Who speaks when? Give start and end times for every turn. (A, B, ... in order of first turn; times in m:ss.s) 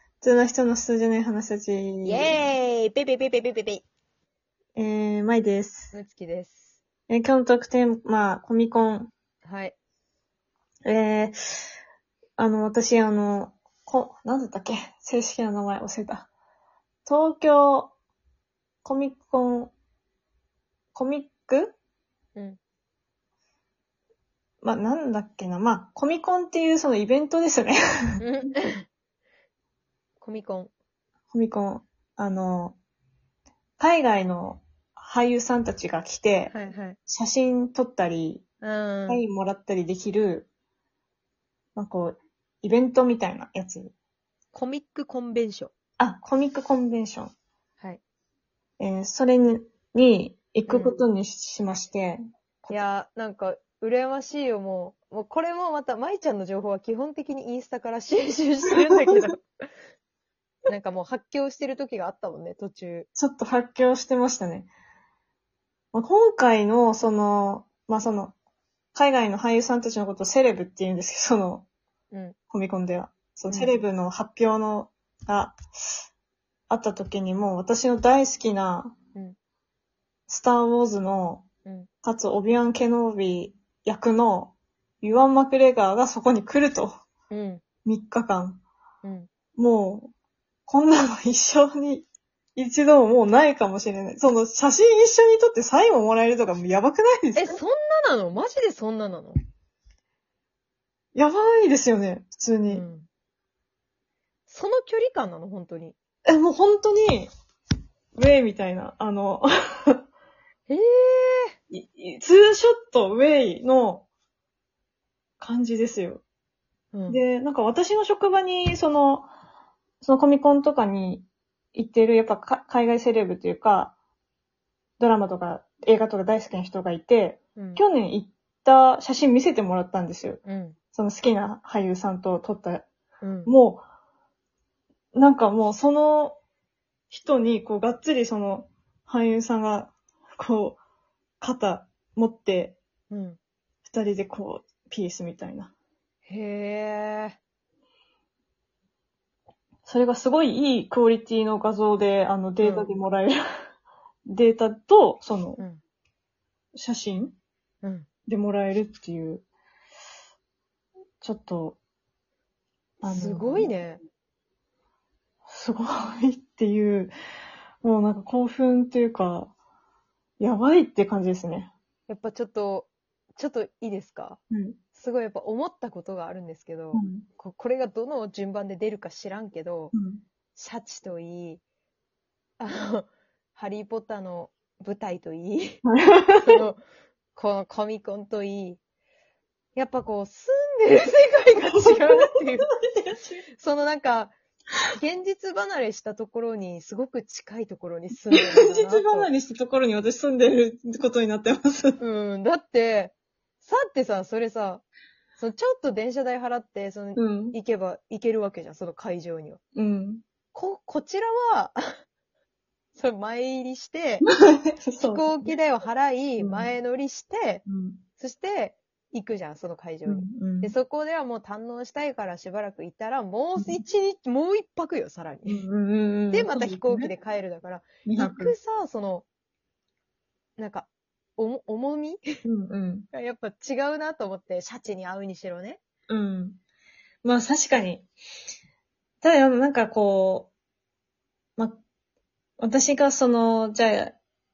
0:00.2-0:02.4 A
0:02.0-0:03.8 B
0:04.8-0:06.0 A
0:05.9-0:06.8 B
0:07.1-0:09.1 A
0:09.4-0:09.8 B
0:10.9-0:11.7 A
0:12.4-0:16.3 A
0:17.0-0:17.9 A
0:18.8-0:19.7 A
0:20.9-0:21.8 A
0:24.6-0:27.8 A
0:28.2-0:28.9 B
0:30.2-0:30.7 B
0:31.3-0:32.8 A
0:33.8-0:36.5 A
0:36.5-0:37.0 B
0:37.1-0:38.4 A
0:38.6-0:39.2 B
0:39.1-0:40.5 A
0:41.8-0:43.9 A
0:44.5-0:45.7 B
0:46.0-0:47.3 A
0:48.8-0:52.8 A
0:50.7-0:51.0 B
0:52.7-0:59.4 B
0:58.7-0:59.1 A
1:00.7-1:03.1 B
1:03.2-1:04.7 A
1:05.9-1:08.3 A
1:08.9-1:11.7 A
1:12.1-1:12.4 B
1:12.5-1:15.6 A
1:13.5-1:13.8 B
1:16.7-1:18.9 A
1:20.3-1:21.4 A
1:22.0-1:26.9 A
1:27.3-1:27.6 B
1:27.8-1:28.6 A
1:29.0-1:29.3 B
1:29.6-1:30.1 A
1:30.7-1:37.6 A
1:37.4-1:39.4 B
1:41.2-1:42.9 A
1:42.7-1:43.1 B
1:44.5-1:46.0 B
1:46.3-1:47.3 A
1:48.2-1:50.0 A
1:50.7-1:51.6 B
1:51.7-1:54.1 A
1:55.4-1:56.2 A
1:56.9-1:57.2 B
1:57.1-1:59.3 A
2:00.0-2:04.0 A
2:05.0-2:10.4 A
2:07.6-2:07.8 B
2:10.4-2:10.8 B
2:10.9-2:12.8 A
2:13.2-2:13.5 B
2:13.5-2:13.8 A
2:15.1-2:16.4 A
2:17.1-2:20.8 A
2:21.4-2:22.8 A
2:23.1-2:23.4 B
2:23.8-2:25.7 A
2:26.3-2:27.4 B
2:29.9-2:33.4 A
2:32.6-2:33.0 B
2:34.3-2:35.6 A
2:36.8-2:37.4 A
2:37.8-2:38.1 B
2:38.3-2:39.4 A
2:41.2-2:41.8 A
2:43.0-2:44.0 B
2:43.0-2:43.8 A
2:45.5-2:47.1 A
2:47.8-2:49.5 A
2:50.4-2:51.7 A
2:52.1-2:54.4 B
2:54.5-2:54.8 A
2:55.0-2:59.9 B
2:56.9-2:57.2 A
2:59.9-3:00.2 A
3:00.6-3:01.6 B
3:02.6-3:05.8 B
3:05.9-3:06.6 A
3:06.4-3:06.8 B
3:07.4-3:08.8 B
3:09.8-3:12.7 B
3:11.7-3:13.4 A
3:13.6-3:14.3 B
3:15.0-3:19.3 B
3:18.3-3:22.0 A
3:22.0-3:24.8 B
3:25.4-3:29.6 B
3:27.2-3:27.6 A
3:29.8-3:30.2 A
3:30.5-3:31.8 B
3:33.0-3:34.3 B
3:34.3-3:35.6 A
3:35.0-3:37.6 B
3:36.4-3:36.7 A
3:37.7-3:38.0 A
3:38.2-3:45.6 B
3:40.1-3:40.8 A
3:43.6-3:43.8 A
3:45.5-3:47.1 A
3:46.3-3:49.2 B
3:48.0-3:48.6 A
3:50.6-3:52.2 B
3:52.4-3:53.1 A
3:53.1-3:55.8 B
3:56.1-3:56.6 A
3:57.2-3:58.1 A
3:59.2-4:00.5 A
4:02.6-4:04.2 A